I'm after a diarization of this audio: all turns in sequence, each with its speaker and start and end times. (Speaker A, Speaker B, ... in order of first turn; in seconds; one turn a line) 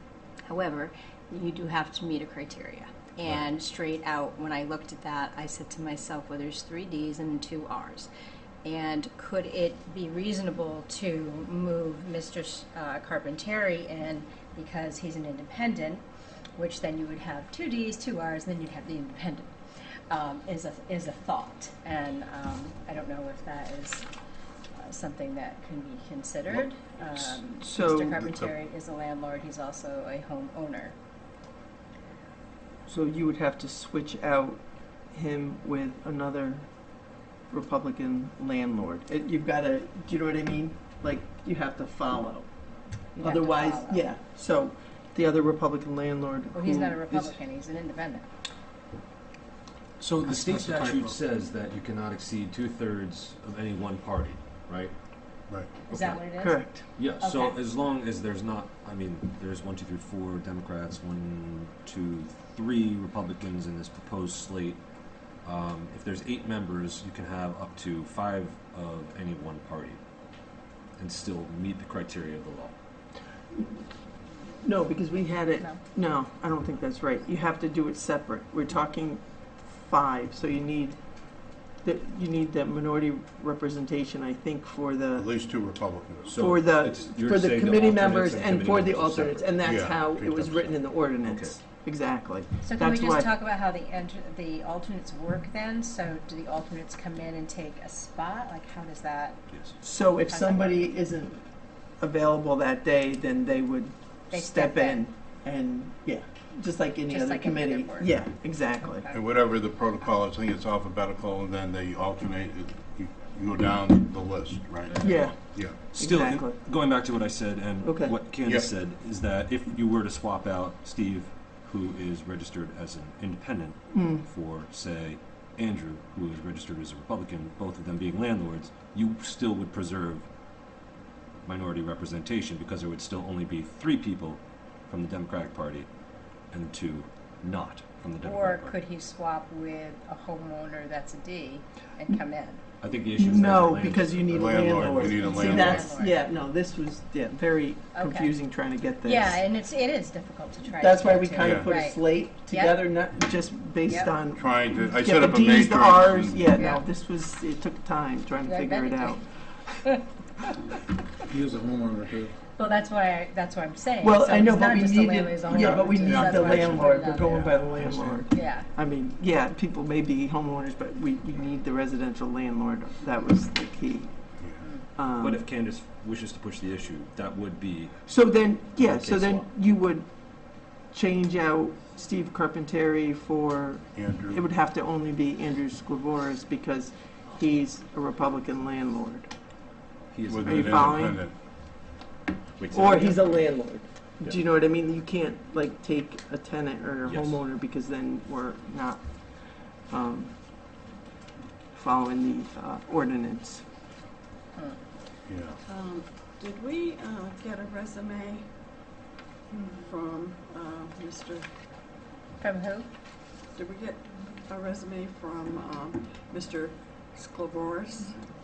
Speaker A: 0.5-8.1
Speaker A: 8.6-16.0
Speaker A: 16.6-19.5
Speaker A: 20.1-24.1
Speaker A: 24.8-30.9
Speaker B: 27.6-28.2
Speaker C: 28.1-28.5
Speaker B: 32.9-36.7
Speaker B: 37.5-42.5
Speaker A: 43.1-44.0
Speaker B: 43.2-47.4
Speaker A: 46.5-48.3
Speaker D: 50.0-51.2
Speaker E: 50.2-54.9
Speaker E: 55.9-56.2
Speaker A: 55.9-57.5
Speaker B: 56.4-56.9
Speaker E: 56.9-64.8
Speaker E: 65.4-70.0
Speaker E: 71.0-72.7
Speaker B: 74.6-81.0
Speaker B: 81.8-85.3
Speaker C: 85.2-86.5
Speaker E: 86.3-89.5
Speaker B: 86.3-93.3
Speaker C: 89.6-90.8
Speaker E: 91.2-91.6
Speaker A: 92.6-99.4
Speaker B: 99.8-101.5
Speaker A: 100.1-100.9
Speaker B: 102.0-109.1
Speaker A: 104.3-105.0
Speaker A: 107.1-108.1
Speaker A: 108.8-109.2
Speaker C: 109.1-115.8
Speaker B: 115.0-116.6
Speaker E: 115.9-130.2
Speaker B: 117.8-118.1
Speaker C: 118.4-118.7
Speaker B: 123.9-124.2
Speaker E: 131.4-135.9
Speaker E: 136.5-138.7
Speaker A: 138.2-142.6
Speaker E: 142.8-145.8
Speaker B: 143.2-149.4
Speaker C: 144.3-145.9
Speaker A: 145.2-146.2
Speaker A: 147.9-148.3
Speaker A: 149.0-152.8
Speaker B: 150.8-159.2
Speaker C: 151.4-151.7
Speaker A: 153.9-154.1
Speaker C: 154.3-156.5
Speaker A: 156.6-156.8
Speaker A: 158.4-159.2
Speaker D: 161.3-162.3
Speaker A: 162.6-167.7
Speaker B: 164.0-174.1
Speaker C: 166.0-166.5
Speaker D: 167.8-168.1
Speaker A: 168.3-168.7
Speaker B: 174.9-175.4
Speaker E: 175.2-178.0
Speaker B: 178.1-189.3
Speaker E: 178.8-179.5
Speaker C: 183.9-184.4
Speaker E: 190.1-191.1
Speaker C: 190.3-191.4
Speaker B: 190.4-191.2
Speaker E: 192.6-193.2
Speaker B: 192.7-200.3
Speaker E: 197.0-197.4
Speaker B: 201.7-203.6
Speaker C: 205.2-205.6
Speaker F: 205.6-208.5
Speaker F: 209.5-211.5
Speaker A: 212.4-212.9
Speaker F: 213.5-218.2